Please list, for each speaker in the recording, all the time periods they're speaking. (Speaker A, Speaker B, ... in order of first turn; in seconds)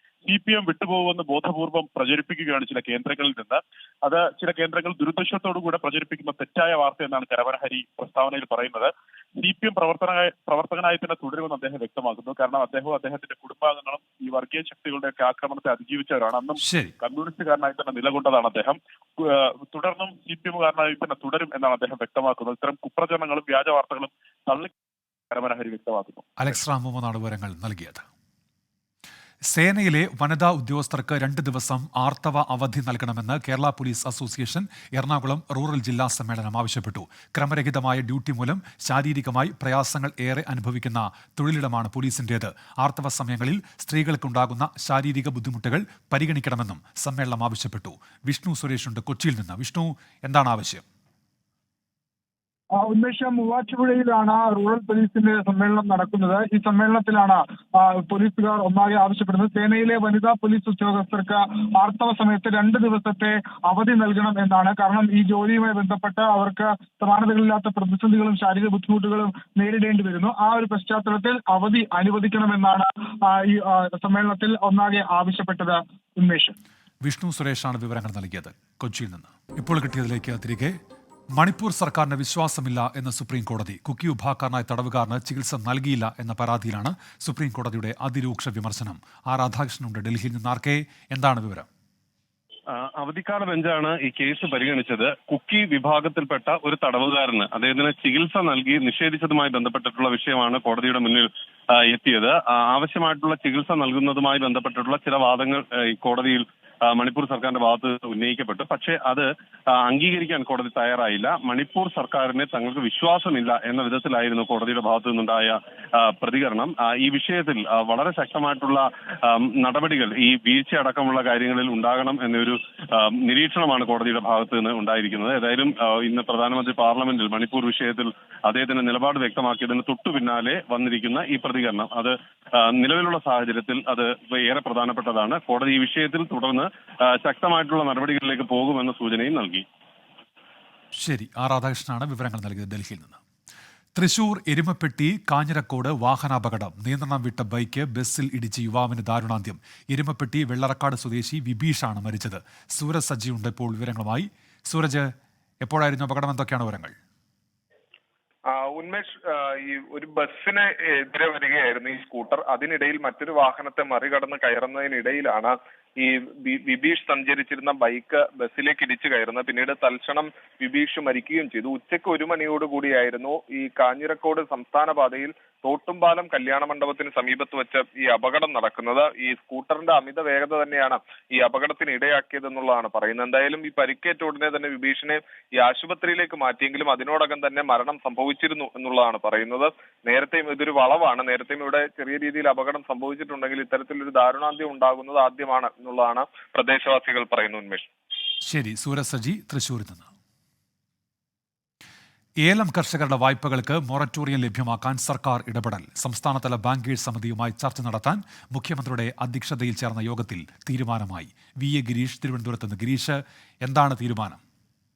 Speaker A: 0.2-24.7, 25.3-26.2
Speaker B: 16.6-16.9, 26.4-28.0, 29.5-50.9, 77.0-80.8, 81.4-91.7, 141.0-143.2, 144.0-155.1, 155.6-156.9, 198.5-200.1, 202.4-214.4
Speaker C: 52.8-76.6
Speaker D: 92.7-139.7
Speaker E: 158.5-197.8